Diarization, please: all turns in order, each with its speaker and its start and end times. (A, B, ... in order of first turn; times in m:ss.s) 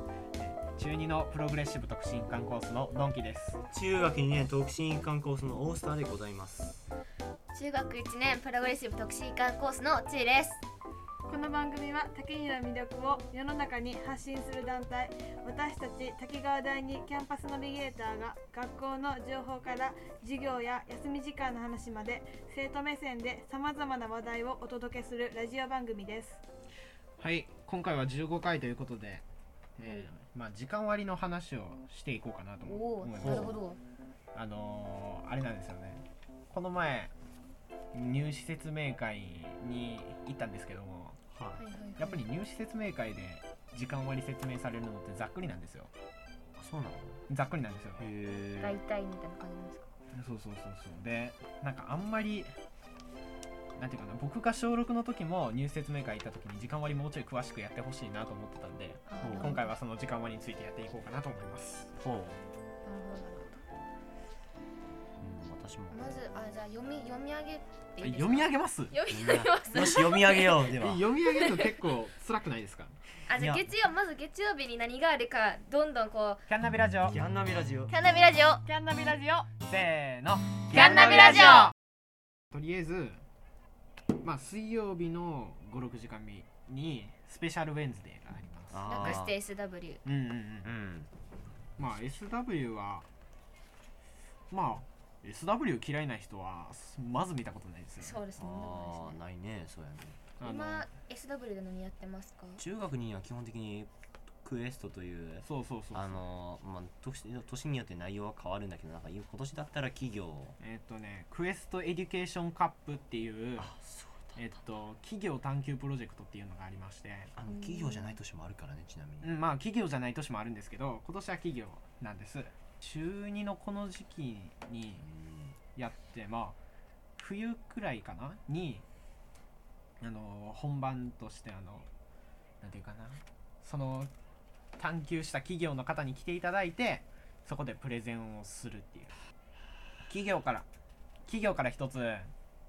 0:00.4-0:03.6 A
0:03.7-0:06.9 B
0:07.5-0:10.6 C
0:11.2-0:26.4 D
0:27.2-0:29.2 A
0:29.8-0:33.6 A
0:32.6-0:33.8 C
0:33.2-0:33.6 B
0:34.3-0:37.1 A
0:37.9-0:41.2 A
0:41.3-0:41.6 B
0:41.6-0:42.2 C
0:42.0-0:45.9 A
0:46.6-0:47.2 B
0:47.3-0:48.1 A
0:48.0-0:48.8 B
0:48.6-0:49.9 C
0:50.1-0:52.5 A
0:53.8-1:01.9 A
0:59.1-0:59.7 C
0:59.2-0:59.5 B
1:02.0-1:02.4 B
1:02.8-1:03.6 C
1:05.2-1:06.2 B
1:05.9-1:10.6 C
1:08.0-1:09.0 A
1:09.1-1:11.1 B
1:10.7-1:13.0 A
1:13.3-1:16.4 C
1:13.4-1:13.6 B
1:16.5-1:17.2 A
1:17.1-1:17.9 B
1:17.9-1:18.6 C
1:18.6-1:21.7 A
1:20.7-1:21.6 B
1:20.7-1:21.7 C
1:22.5-1:23.2 A
1:24.2-1:29.2 A
1:28.7-1:29.3 B
1:28.9-1:30.0 C
1:30.0-1:30.7 A
1:30.6-1:31.1 B
1:31.8-1:33.1 A
1:34.5-1:38.2 A
1:38.0-1:39.2 C
1:38.4-1:40.3 B
1:40.4-1:40.9 A
1:40.4-1:42.6 C
1:42.6-1:43.9 B
1:44.4-1:50.6 B
1:45.4-1:46.2 A
1:50.6-1:53.7 A
1:53.6-1:54.5 B
1:54.3-1:57.3 A
1:57.4-1:59.3 B
1:57.5-1:58.2 C
1:59.2-2:05.0 A
2:05.0-2:05.6 B
2:05.7-2:06.6 A
2:07.2-2:08.8 A
2:10.0-2:11.9 A
2:12.6-2:14.1 A
2:14.8-2:19.2 A
2:20.0-2:20.7 A
2:21.2-2:22.3 A